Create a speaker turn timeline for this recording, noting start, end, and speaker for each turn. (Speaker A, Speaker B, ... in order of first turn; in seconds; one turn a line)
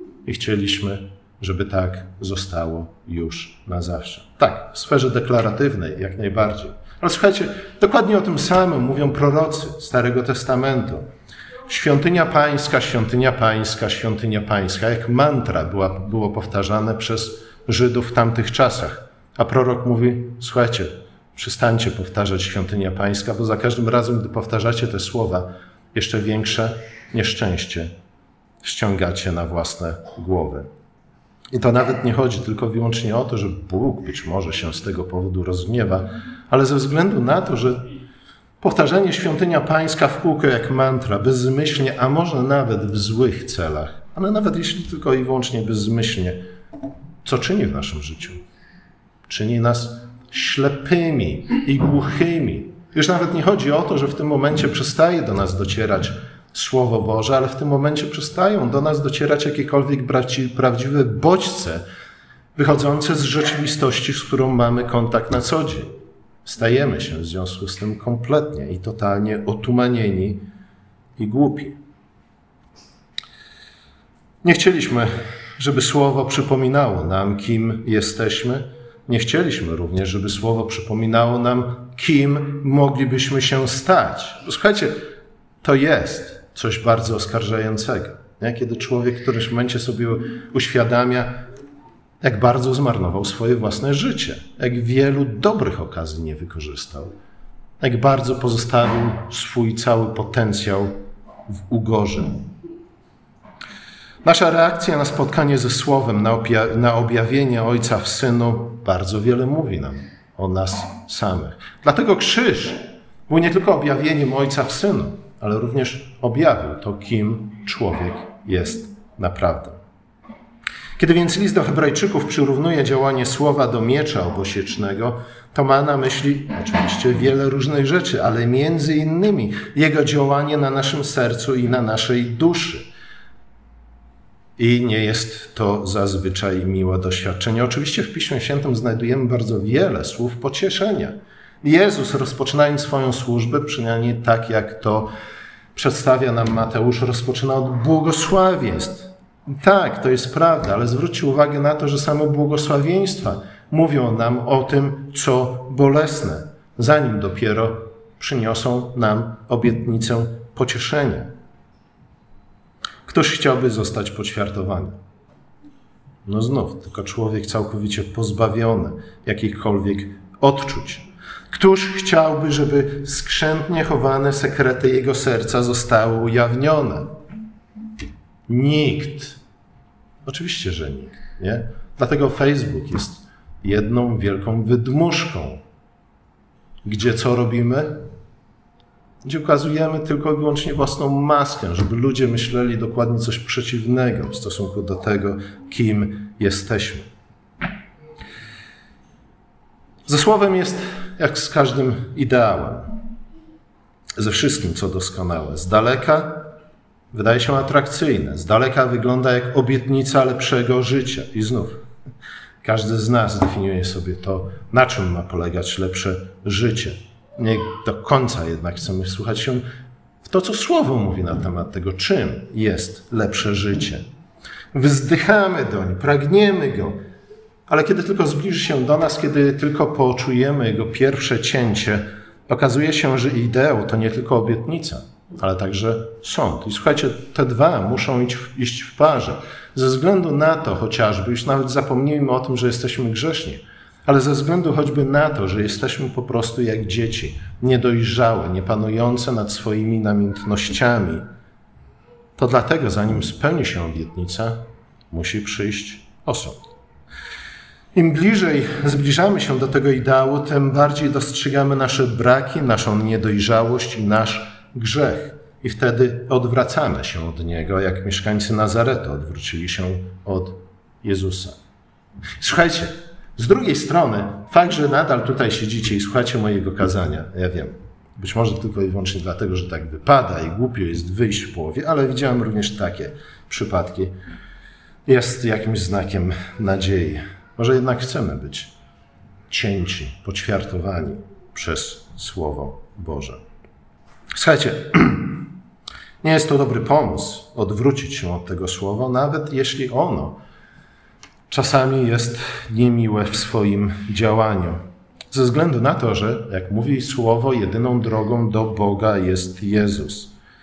Speaker A: 0.2-11.1
Speaker A: 11.7-27.9
Speaker A: 28.6-30.7
Speaker A: 31.5-37.9
Speaker A: 38.6-46.4
Speaker A: 47.2-48.4
Speaker A: 49.3-61.9
Speaker A: 62.6-65.9
Speaker A: 66.5-70.4
Speaker A: 71.2-71.8
Speaker A: 74.4-85.1
Speaker A: 85.6-91.5
Speaker A: 92.2-97.2
Speaker A: 97.8-101.0
Speaker A: 101.5-102.5
Speaker A: 104.2-119.8
Speaker A: 121.0-132.9
Speaker A: 134.6-145.1
Speaker A: 145.8-161.3
Speaker A: 163.1-165.0
Speaker A: 166.3-177.1
Speaker A: 178.5-179.4
Speaker A: 180.2-185.6
Speaker A: 186.8-188.0
Speaker A: 189.2-197.1
Speaker A: 200.1-202.9
Speaker A: 204.2-206.5
Speaker A: 207.1-211.8
Speaker A: 212.6-219.6
Speaker A: 220.2-224.0
Speaker A: 224.7-227.0
Speaker A: 227.7-251.2
Speaker A: 252.4-254.6
Speaker A: 255.1-256.6
Speaker A: 257.9-271.6
Speaker A: 272.4-284.1
Speaker A: 285.1-288.7
Speaker A: 289.5-293.4
Speaker A: 294.3-295.5
Speaker A: 296.2-300.4
Speaker A: 301.5-310.3